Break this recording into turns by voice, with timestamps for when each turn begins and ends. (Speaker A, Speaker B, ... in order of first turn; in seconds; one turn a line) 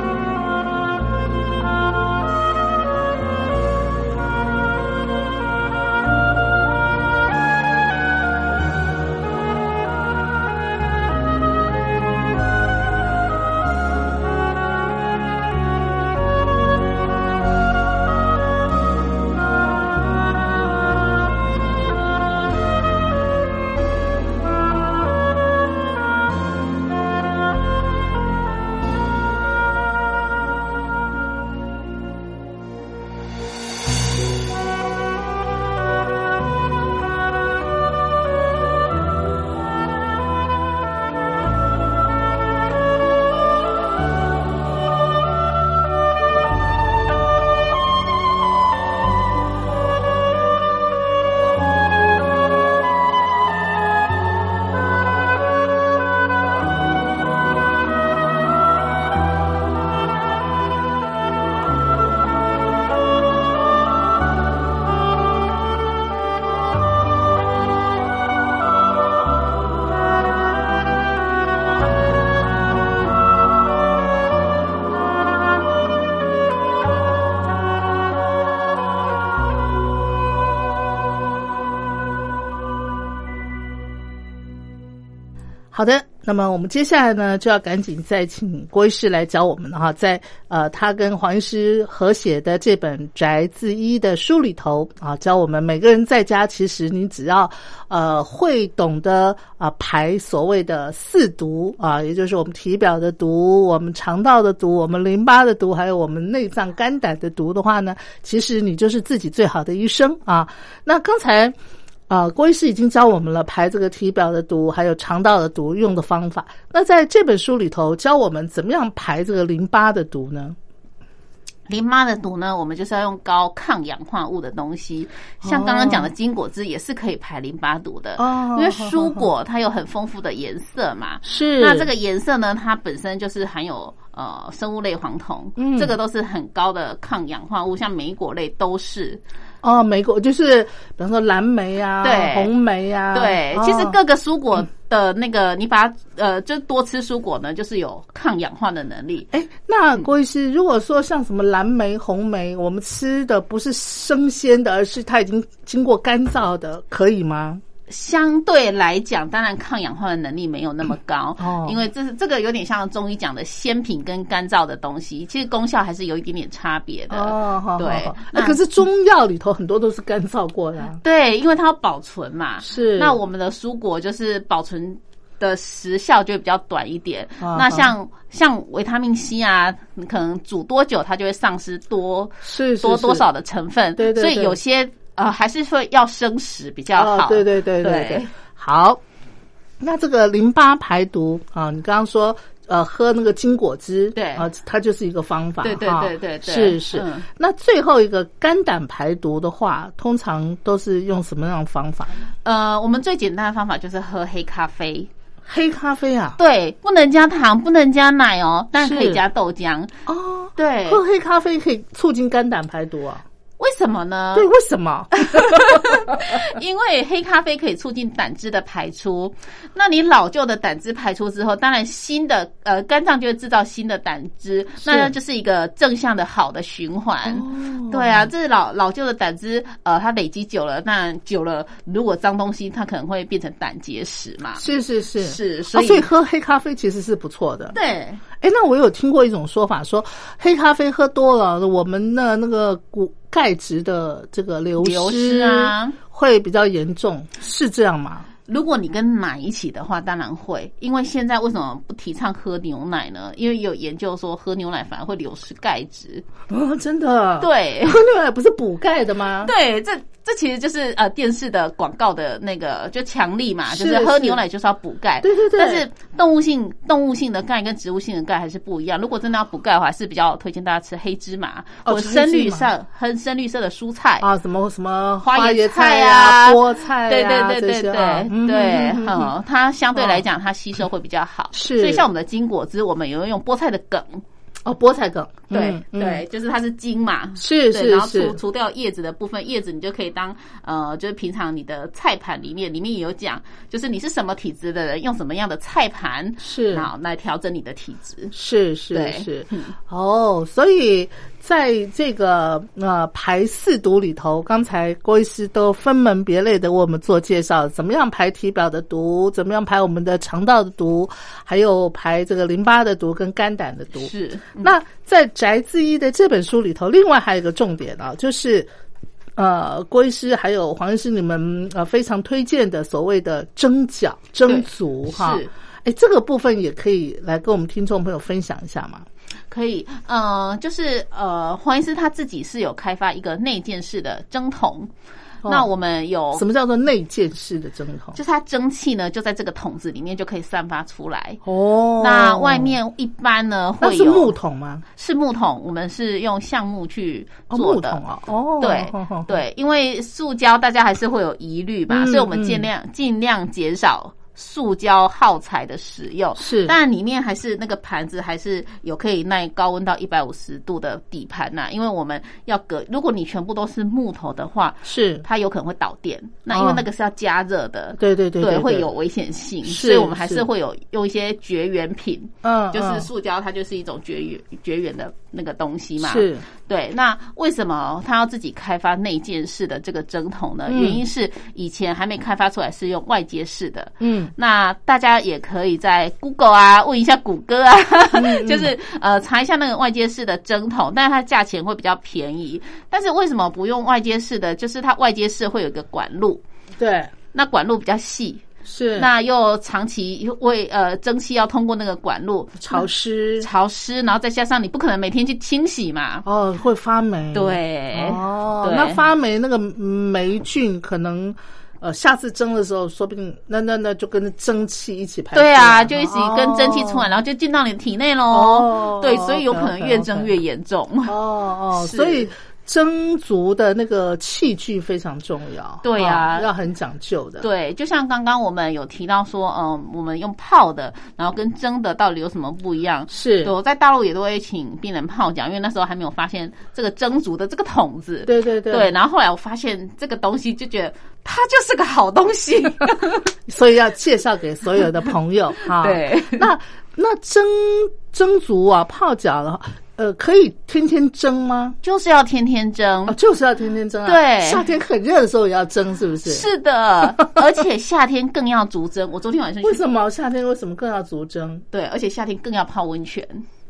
Speaker A: 85.7-111.5
Speaker A: 112.1-120.5
Speaker B: 121.7-139.2
Speaker A: 125.4-126.1
Speaker A: 128.2-129.3
Speaker A: 131.2-131.9
Speaker A: 135.6-135.9
Speaker A: 139.6-144.0
Speaker B: 142.0-142.5
Speaker B: 143.1-149.3
Speaker A: 149.3-157.6
Speaker B: 157.9-168.6
Speaker A: 161.4-161.8
Speaker A: 167.1-171.0
Speaker B: 171.0-188.3
Speaker A: 172.6-173.2
Speaker A: 177.4-177.9
Speaker A: 182.4-183.3
Speaker A: 184.0-184.6
Speaker A: 186.9-189.0
Speaker A: 189.8-202.2
Speaker B: 194.1-194.5
Speaker B: 195.6-197.2
Speaker B: 202.4-205.1
Speaker A: 205.4-206.4
Speaker B: 206.4-209.9
Speaker A: 208.8-209.2
Speaker A: 210.1-213.2
Speaker B: 210.6-211.0
Speaker B: 213.6-214.5
Speaker A: 214.3-216.4
Speaker B: 215.1-234.6
Speaker A: 224.8-225.1
Speaker A: 227.2-228.3
Speaker A: 234.6-237.7
Speaker B: 235.2-236.1
Speaker B: 237.7-238.2
Speaker A: 238.4-248.3
Speaker B: 244.8-246.0
Speaker B: 248.5-256.2
Speaker A: 256.5-259.5
Speaker B: 257.4-258.0
Speaker B: 259.4-274.2
Speaker A: 263.7-264.4
Speaker A: 265.2-265.8
Speaker A: 271.8-272.7
Speaker A: 274.2-279.3
Speaker B: 275.2-284.2
Speaker A: 279.9-280.2
Speaker A: 281.5-282.0
Speaker A: 284.6-286.2
Speaker B: 285.5-298.3
Speaker A: 287.4-288.4
Speaker A: 296.4-296.9
Speaker A: 298.3-318.7
Speaker B: 298.9-299.7
Speaker B: 314.0-314.7
Speaker A: 319.4-329.1
Speaker B: 324.4-325.5
Speaker B: 329.5-334.9
Speaker B: 335.4-336.4
Speaker A: 336.3-338.2
Speaker B: 338.1-341.4
Speaker A: 341.4-342.8
Speaker B: 342.0-344.3
Speaker A: 343.8-344.8
Speaker B: 344.9-348.0
Speaker A: 347.5-349.4
Speaker B: 348.6-396.4
Speaker A: 351.9-352.7
Speaker A: 356.4-356.7
Speaker A: 364.8-365.2
Speaker A: 366.5-366.8
Speaker A: 368.0-368.9
Speaker A: 369.6-370.4
Speaker A: 372.4-373.1
Speaker A: 376.0-376.4
Speaker A: 380.7-381.0
Speaker A: 384.0-384.3
Speaker A: 388.1-388.7
Speaker A: 396.8-397.1
Speaker B: 397.3-398.4
Speaker A: 398.6-399.1
Speaker B: 398.9-402.9
Speaker A: 402.6-403.5
Speaker B: 403.4-406.2
Speaker A: 406.2-417.1
Speaker B: 407.3-409.0
Speaker B: 415.3-421.1
Speaker A: 418.3-420.3
Speaker A: 421.1-427.4
Speaker B: 421.7-422.3
Speaker B: 425.8-426.5
Speaker B: 427.4-443.2
Speaker A: 433.1-433.5
Speaker A: 438.2-438.9
Speaker A: 443.5-451.8
Speaker B: 445.8-446.5
Speaker B: 451.8-453.1
Speaker A: 453.1-456.4
Speaker B: 454.0-454.6
Speaker B: 456.2-459.8
Speaker A: 459.6-461.6
Speaker B: 461.7-463.4